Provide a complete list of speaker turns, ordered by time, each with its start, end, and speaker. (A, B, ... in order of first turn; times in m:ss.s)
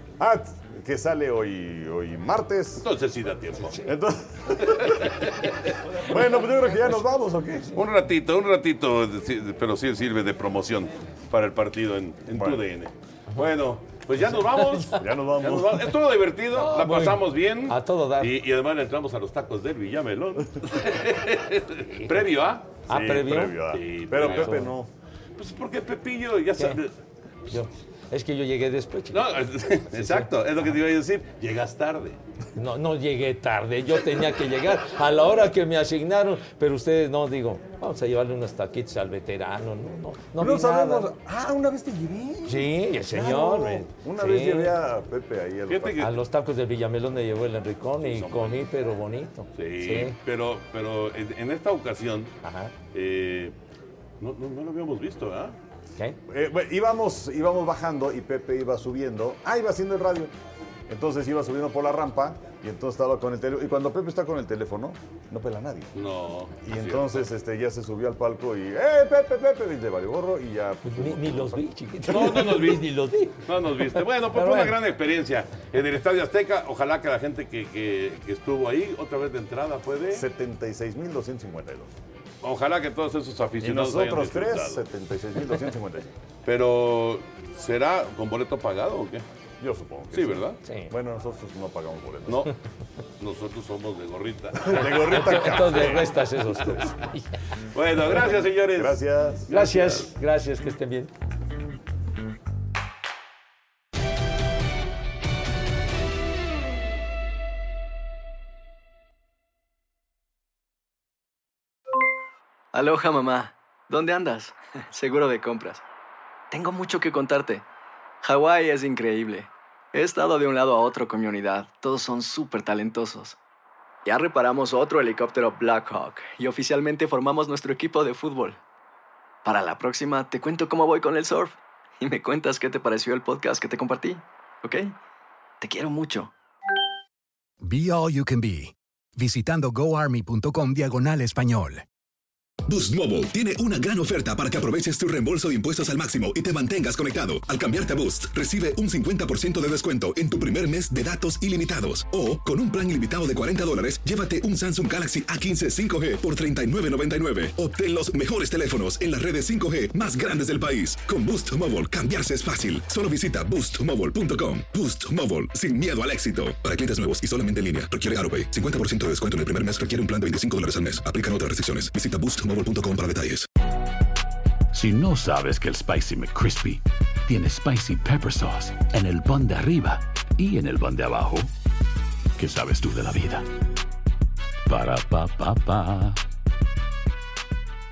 0:00.2-0:02.9 A
0:02.8-0:03.8 B
0:03.8-0:04.9 A
0:04.7-0:05.5 B
0:06.0-0:07.7 A
0:07.7-0:22.8 B
0:12.3-0:12.6 A
0:14.2-0:15.0 C
0:14.9-0:15.9 A
0:16.5-0:18.3 C
0:21.9-0:22.3 C
0:22.9-0:23.6 C
0:22.9-0:24.9 A
0:23.7-0:24.6 B
0:24.1-0:24.8 C
0:25.4-0:26.9 B
0:27.5-0:30.3 C
0:29.1-0:32.2 B
0:32.6-0:41.1 C
0:40.4-0:46.0 A
0:42.4-0:44.8 C
0:45.7-0:46.2 B
0:46.0-0:50.2 C
0:48.0-0:48.6 B
0:49.5-0:52.3 B
0:52.4-0:52.7 C
0:52.9-0:53.6 B
0:54.2-0:55.6 B
0:56.3-1:00.3 A
1:00.9-1:05.9 A
1:05.9-1:07.2 B
1:06.6-1:11.6 A
1:10.8-1:13.4 C
1:12.1-1:20.2 B
1:14.0-1:14.8 C
1:20.1-1:21.9 A
1:22.4-1:24.8 B
1:23.6-1:26.1 A
1:26.4-1:29.2 B
1:29.6-1:32.5 A
1:30.1-1:30.6 B
1:30.6-1:30.9 C
1:32.3-1:32.5 B
1:33.2-1:36.8 B
1:34.6-1:36.1 A
1:34.8-1:37.3 C
1:37.7-1:40.1 B
1:38.1-1:39.5 A
1:39.5-1:41.1 C
1:52.7-1:55.8 D
1:56.5-1:57.6 D
1:58.2-2:03.4 D
2:04.1-2:08.6 D
2:09.4-2:14.9 D
2:15.6-2:16.3 D
2:17.6-2:21.8 E
2:22.7-2:53.5 F
2:54.7-3:01.5 G
3:02.4-3:03.4 G
3:04.7-3:06.2 G